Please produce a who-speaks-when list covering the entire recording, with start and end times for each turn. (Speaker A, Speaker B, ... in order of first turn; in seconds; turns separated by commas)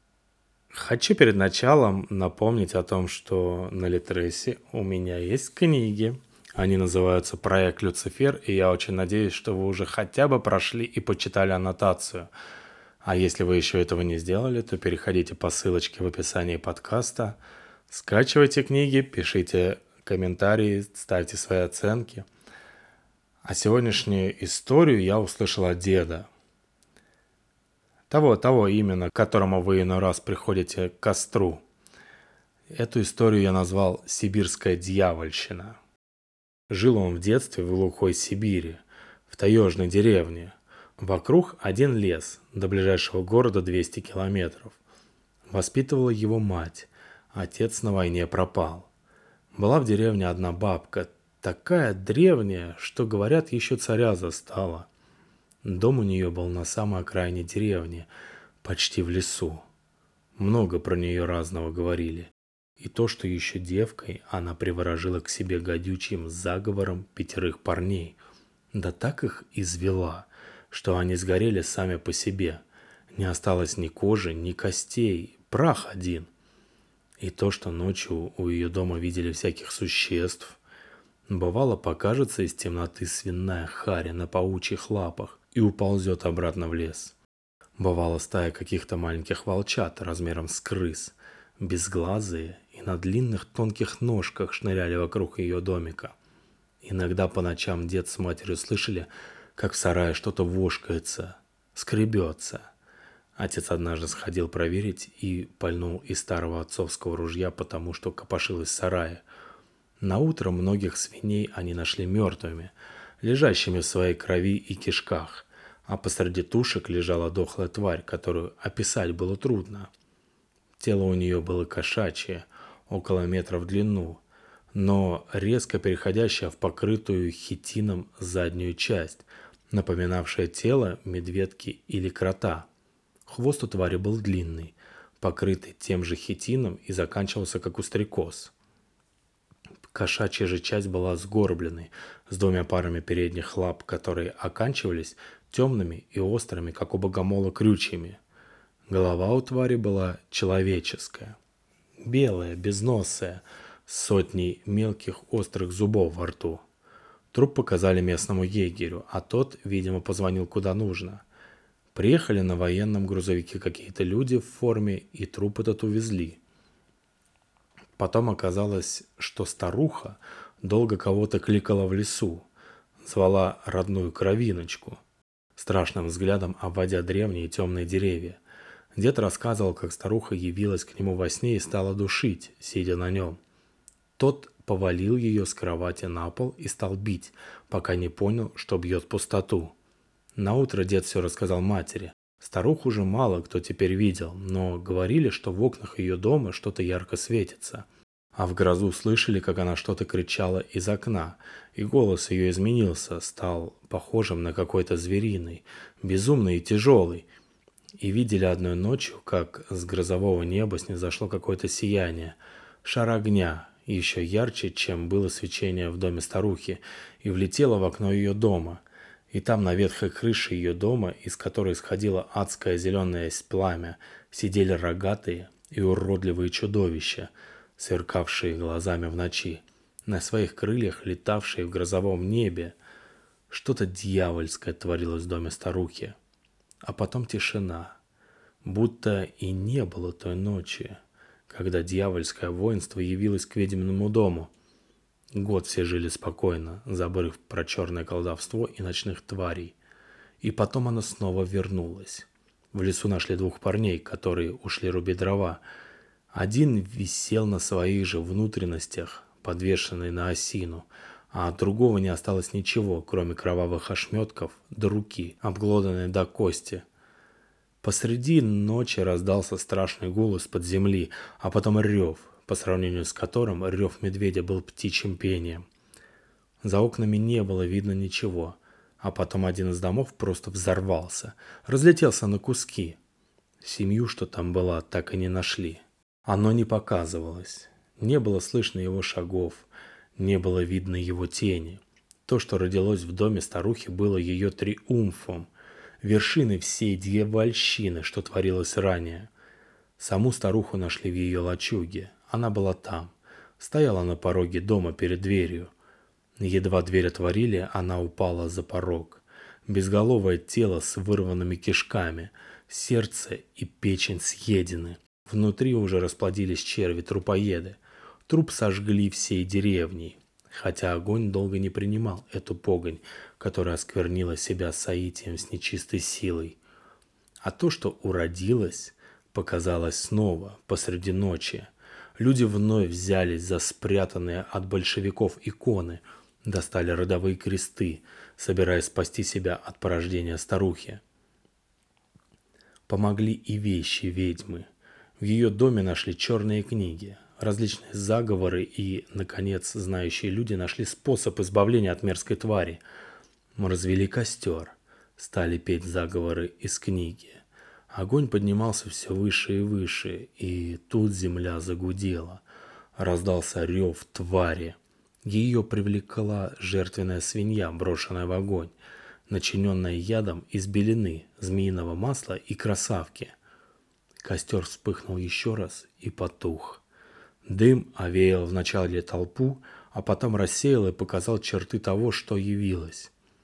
Speaker A: 0.7-12.3, Speaker A: 13.0-17.4, Speaker A: 17.9-22.3, Speaker A: 23.4-26.3, Speaker A: 28.1-31.6, Speaker A: 32.7-35.8, Speaker A: 36.7-44.8, Speaker A: 45.5-48.9, Speaker A: 49.5-54.9, Speaker A: 55.6-58.1, Speaker A: 58.6-59.6, Speaker A: 60.4-68.2, Speaker A: 68.7-72.6, Speaker A: 73.2-76.3, Speaker A: 77.2-80.6, Speaker A: 81.3-87.2, Speaker A: 87.8-96.2, Speaker A: 96.8-102.7, Speaker A: 103.4-109.2, Speaker A: 110.0-119.9, Speaker A: 120.8-124.2, Speaker A: 124.7-132.7, Speaker A: 133.3-138.5, Speaker A: 139.9-148.2, Speaker A: 148.9-151.4, Speaker A: 152.0-156.6, Speaker A: 157.3-161.2, Speaker A: 161.9-166.4, Speaker A: 168.0-172.5, Speaker A: 173.0-175.0, Speaker A: 175.6-178.4, Speaker A: 178.9-183.4, Speaker A: 184.2-189.7, Speaker A: 190.4-207.3, Speaker A: 208.0-232.8, Speaker A: 233.5-236.2, Speaker A: 236.8-238.0, Speaker A: 238.6-244.5, Speaker A: 245.3-249.8, Speaker A: 250.4-255.6, Speaker A: 256.3-266.9, Speaker A: 267.8-275.7, Speaker A: 276.6-283.0, Speaker A: 283.6-295.5, Speaker A: 296.0-299.3, Speaker A: 300.0-305.7, Speaker A: 306.4-326.6, Speaker A: 327.4-341.0, Speaker A: 342.9-344.7, Speaker A: 345.2-352.8, Speaker A: 353.6-362.4, Speaker A: 363.0-368.7, Speaker A: 369.3-373.4, Speaker A: 374.2-376.8, Speaker A: 377.4-383.1